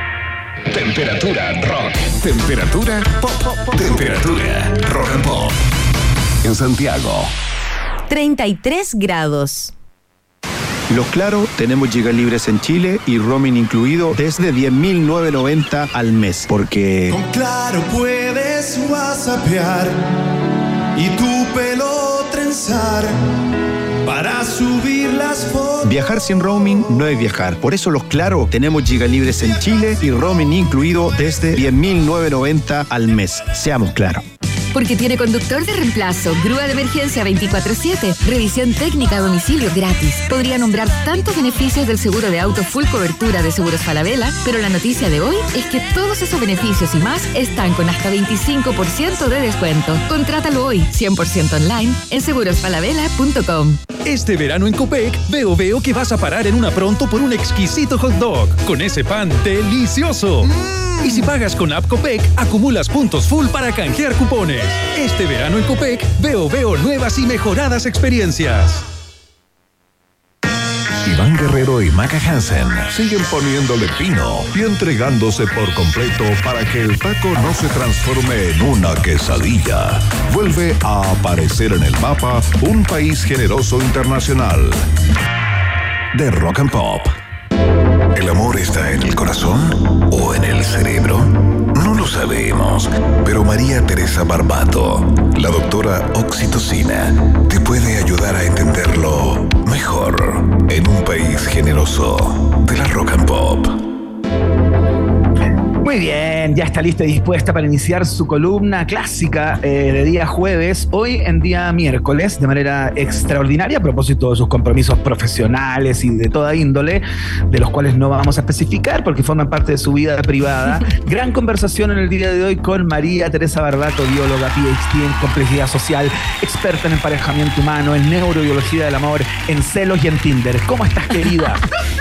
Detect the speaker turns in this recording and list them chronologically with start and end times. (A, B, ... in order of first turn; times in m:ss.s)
0:00.7-0:05.6 A
0:06.4-0:07.3 A
0:08.1-0:09.7 B
0:10.9-0:17.2 C
0:17.1-0:20.0 D
0:21.0-0:23.2 D
0:24.0-0:26.0 D
0:25.8-0:34.2 C
0:34.7-0:53.8 B
0:54.0-1:08.8 E
1:11.0-1:24.8 A
1:26.1-1:27.1 A
1:28.1-1:43.8 A
1:45.8-2:11.6 F